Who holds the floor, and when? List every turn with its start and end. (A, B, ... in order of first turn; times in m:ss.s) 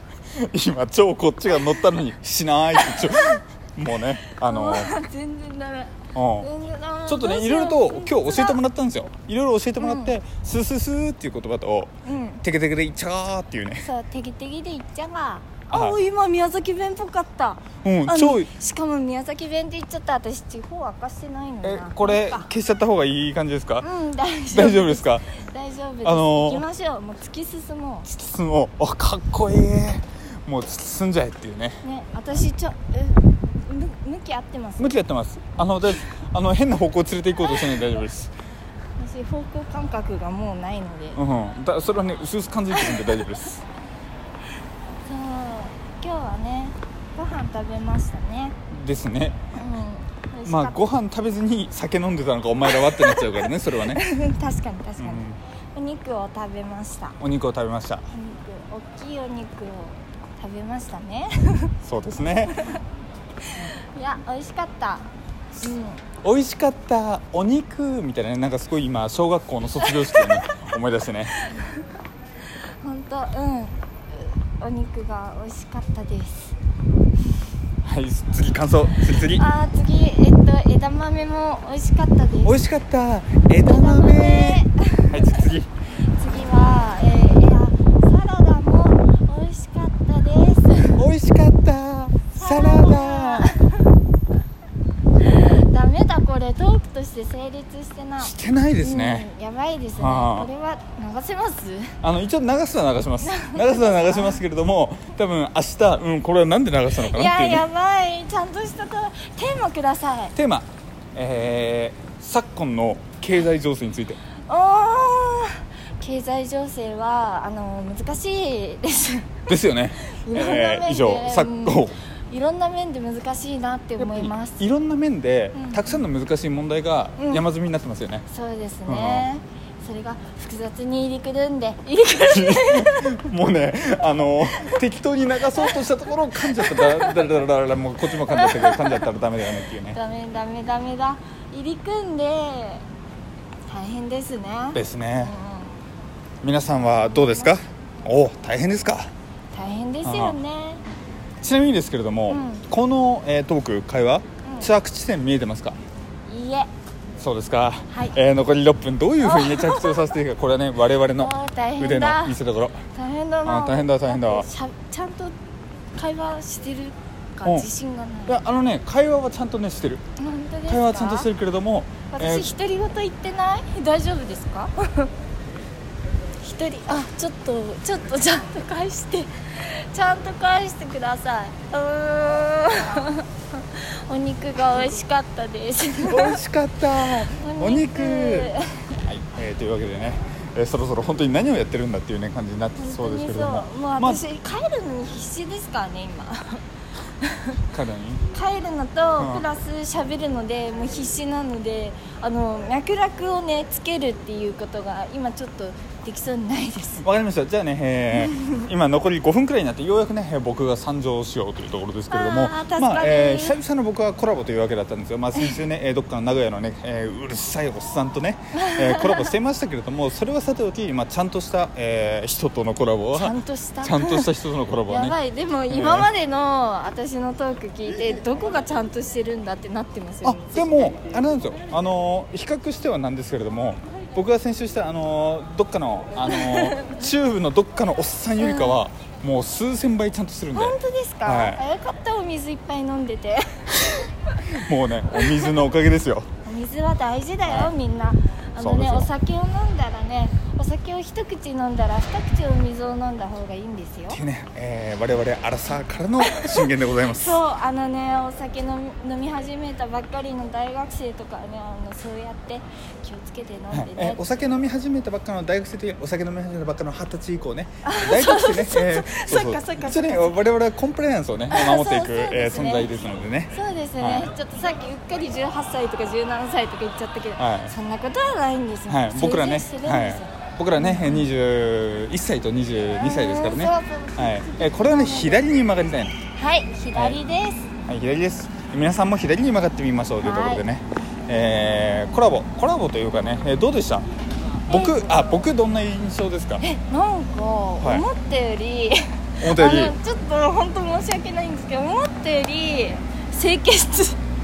0:00.3-0:05.0 A
0:02.8-0:03.4 B
0:04.4-0:08.6 B
0:06.2-0:06.5 A
0:07.1-0:11.9 A
0:09.8-0:10.2 B
0:12.0-0:12.4 B
0:12.4-0:13.9 A
0:13.8-0:22.5 B
0:15.7-0:16.0 A
0:17.8-0:18.5 A
0:21.6-0:23.9 A
0:23.8-0:28.1 B
0:24.5-0:25.3 A
0:26.0-0:26.6 A
0:28.1-0:31.8 A
0:31.8-0:35.0 B
0:34.8-0:38.3 A
0:37.5-0:37.8 B
0:39.0-0:41.2 B
0:41.2-0:43.6 A
0:42.8-0:43.2 B
0:45.0-0:48.6 B
0:48.7-0:49.4 A
0:49.5-0:50.8 B
0:50.5-0:54.0 A
0:52.7-0:55.2 B
0:55.0-0:55.4 A
0:55.8-0:57.2 B
0:57.2-0:58.0 A
0:58.1-1:01.7 B
1:01.8-1:02.7 A
1:02.5-1:02.8 B
1:03.4-1:05.1 B
1:05.6-1:06.0 B
1:06.2-1:11.4 A
1:09.8-1:10.6 B
1:11.4-1:11.8 B
1:12.8-1:16.6 B
1:17.8-1:19.4 A
1:19.3-1:22.6 B
1:22.4-1:25.7 A
1:23.6-1:25.4 B
1:26.1-1:31.0 B
1:31.0-1:33.5 A
1:32.4-1:33.9 B
1:35.2-1:42.0 B
1:38.2-1:39.3 A
1:40.0-1:40.5 A
1:42.0-1:47.7 A
1:43.2-1:44.4 B
1:47.0-1:50.4 B
1:50.4-1:54.2 A
1:54.5-1:59.4 B
1:59.5-2:02.0 A
2:00.1-2:04.6 B
2:04.0-2:08.2 A
2:05.6-2:06.0 B
2:07.2-2:07.4 B
2:08.3-2:13.1 B
2:08.9-2:09.3 A
2:12.3-2:20.0 A
2:16.6-2:17.2 B
2:18.3-2:19.1 B
2:19.9-2:22.9 B
2:23.7-2:25.8 B
2:24.7-2:25.3 A
2:26.4-2:29.1 A
2:26.8-2:27.6 B
2:29.5-2:30.8 B
2:30.0-2:30.4 A
2:31.4-2:35.8 A
2:32.3-2:32.6 B
2:34.4-2:34.7 B
2:36.3-2:36.7 B
2:37.2-2:42.8 A
2:37.9-2:38.2 B
2:39.2-2:40.0 B
2:41.2-2:42.4 B
2:42.9-2:45.4 B
2:43.4-2:44.5 A
2:45.9-2:48.4 B
2:48.3-2:50.0 A
2:50.2-2:51.3 B
2:50.7-2:52.5 A
2:52.1-2:55.1 B
2:56.4-3:06.4 B
3:06.0-3:14.2 A
3:07.3-3:09.0 B
3:12.8-3:16.6 B
3:17.2-3:17.6 B
3:17.7-3:18.2 A
3:18.3-3:27.0 B
3:19.2-3:19.5 A
3:27.0-3:45.2 A
3:28.1-3:28.6 B
3:32.1-3:33.6 B
3:38.5-3:39.3 B
3:43.2-3:44.3 B
3:44.9-3:50.7 B
3:45.7-3:46.1 A
3:50.2-4:01.6 A
3:56.3-3:57.0 B
3:58.4-3:58.8 B
4:00.5-4:03.7 B
4:03.8-4:06.3 A
4:06.4-4:14.2 B
4:07.5-4:07.7 A
4:08.6-4:09.1 A
4:14.1-4:17.4 A
4:16.2-4:24.2 B
4:23.7-4:34.3 A
4:27.8-4:30.4 B
4:31.5-4:32.9 B
4:33.5-4:41.3 B
4:37.4-4:37.8 A
4:38.9-4:46.2 A
4:42.9-4:45.5 B
4:46.3-4:47.7 B
4:47.0-4:47.2 A
4:47.9-4:54.0 A
4:50.2-4:50.6 B
4:54.7-4:55.2 B
4:54.7-4:56.6 A
4:56.6-5:04.2 B
4:57.8-4:58.1 A
4:59.4-5:00.0 A